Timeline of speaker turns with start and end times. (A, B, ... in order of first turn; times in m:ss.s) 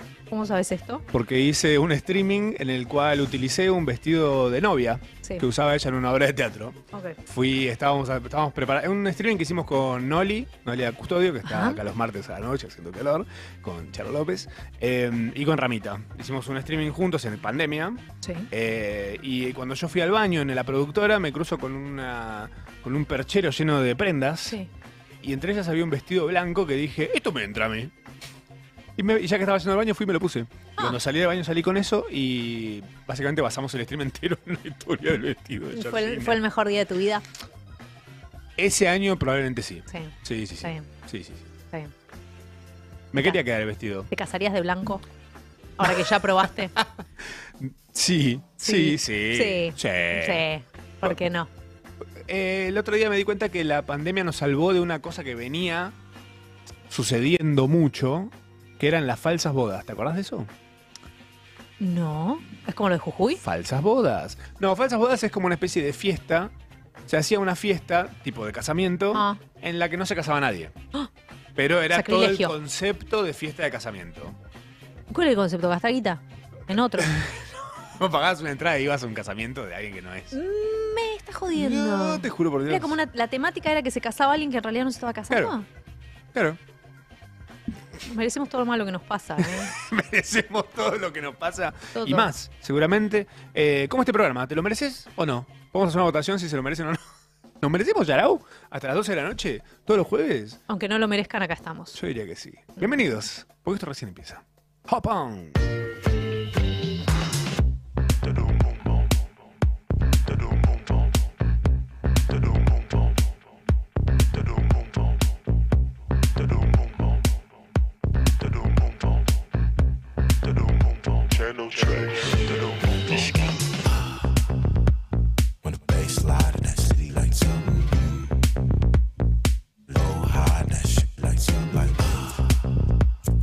0:00.3-0:01.0 A
0:01.1-0:24.6 B
0:06.9-0:07.2 A
0:11.4-0:11.8 A
0:18.2-0:18.5 A
0:25.2-0:27.9 B
0:29.0-0:36.4 B
0:35.7-0:37.2 A
0:38.6-0:41.4 B
0:39.9-0:40.9 A
0:43.1-0:44.1 B
0:44.1-0:45.0 A
0:45.8-0:46.7 A
0:47.6-0:50.4 B
0:48.6-0:51.5 A
0:52.2-0:56.0 B
0:56.9-1:00.5 B
1:01.8-1:03.4 A
1:03.4-1:06.5 B
1:07.1-1:10.7 B
1:09.1-1:09.4 A
1:11.6-1:14.4 B
1:11.9-1:12.5 A
1:15.1-1:17.1 A
1:17.0-1:20.4 B
1:20.3-1:25.6 A
1:21.6-1:23.0 B
1:25.3-1:25.6 B
1:26.3-1:26.6 B
1:28.1-1:29.7 A
1:29.4-1:37.0 B
1:32.0-1:32.3 A
1:37.6-1:40.6 B
1:40.7-1:42.0 A
1:41.9-1:45.6 B
2:03.1-2:03.6 C
2:05.6-2:08.0 C
2:09.9-2:12.4 C